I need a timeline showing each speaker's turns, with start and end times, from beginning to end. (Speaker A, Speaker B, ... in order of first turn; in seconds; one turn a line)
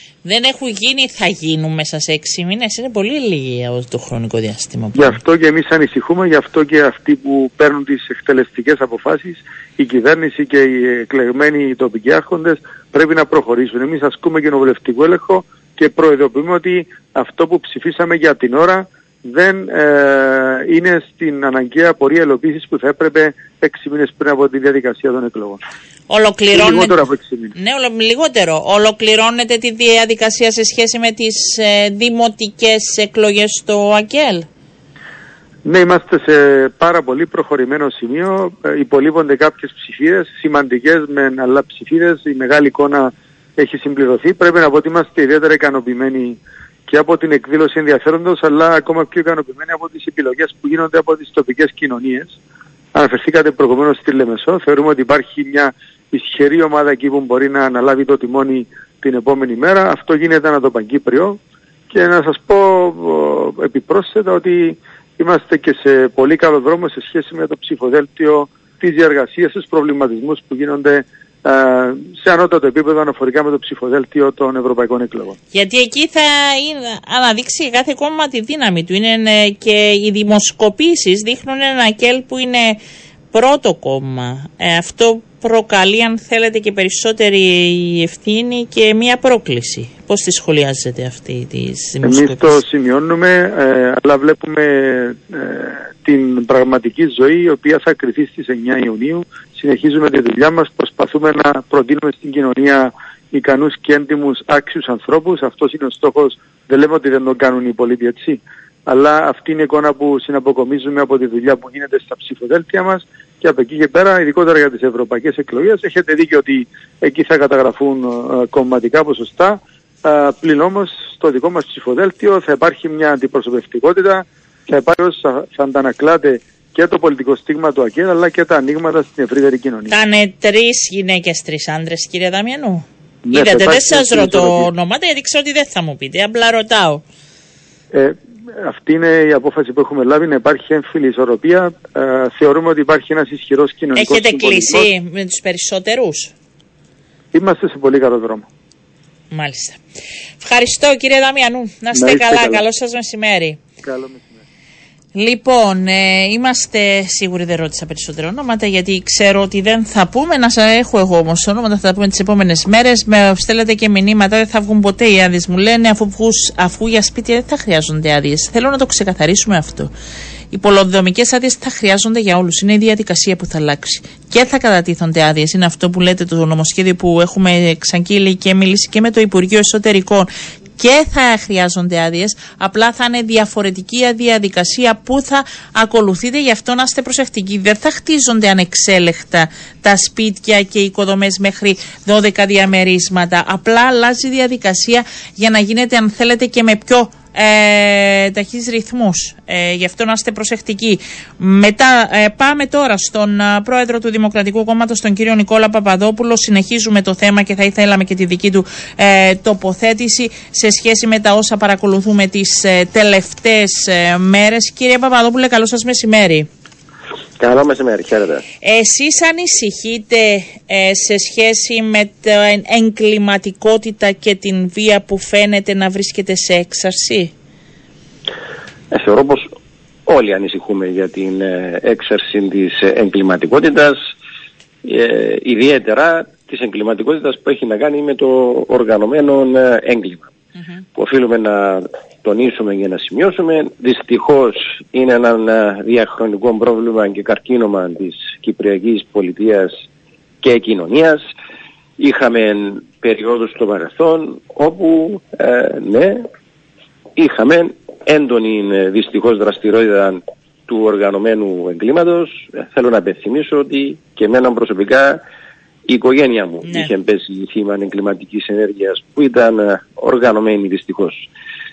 Speaker A: 0.2-5.2
Speaker B: 4.9-25.6
Speaker A: 26.1-27.0
Speaker B: 26.5-27.5
Speaker A: 27.6-34.5
Speaker B: 35.6-52.4
Speaker B: 52.9-61.4
Speaker B: 61.9-75.3
Speaker A: 75.5-82.8
Speaker A: 83.3-92.6
Speaker B: 92.0-129.9
Speaker A: 129.9-137.0
Speaker B: 133.2-134.7
Speaker B: 137.9-144.9
Speaker A: 143.9-146.3
Speaker B: 147.3-148.4
Speaker A: 149.3-149.8
Speaker A: 150.4-153.6
Speaker B: 151.9-152.6
Speaker B: 153.8-154.4
Speaker A: 155.1-169.9
Speaker A: 170.5-216.5
Speaker C: 217.4-218.4
Speaker A: 218.6-227.3
Speaker C: 228.9-229.5
Speaker C: 230.1-234.1
Speaker C: 234.8-240.3
Speaker C: 240.9-249.7
Speaker C: 250.4-251.2
Speaker C: 252.0-256.2
Speaker C: 257.1-265.2
Speaker C: 265.9-271.3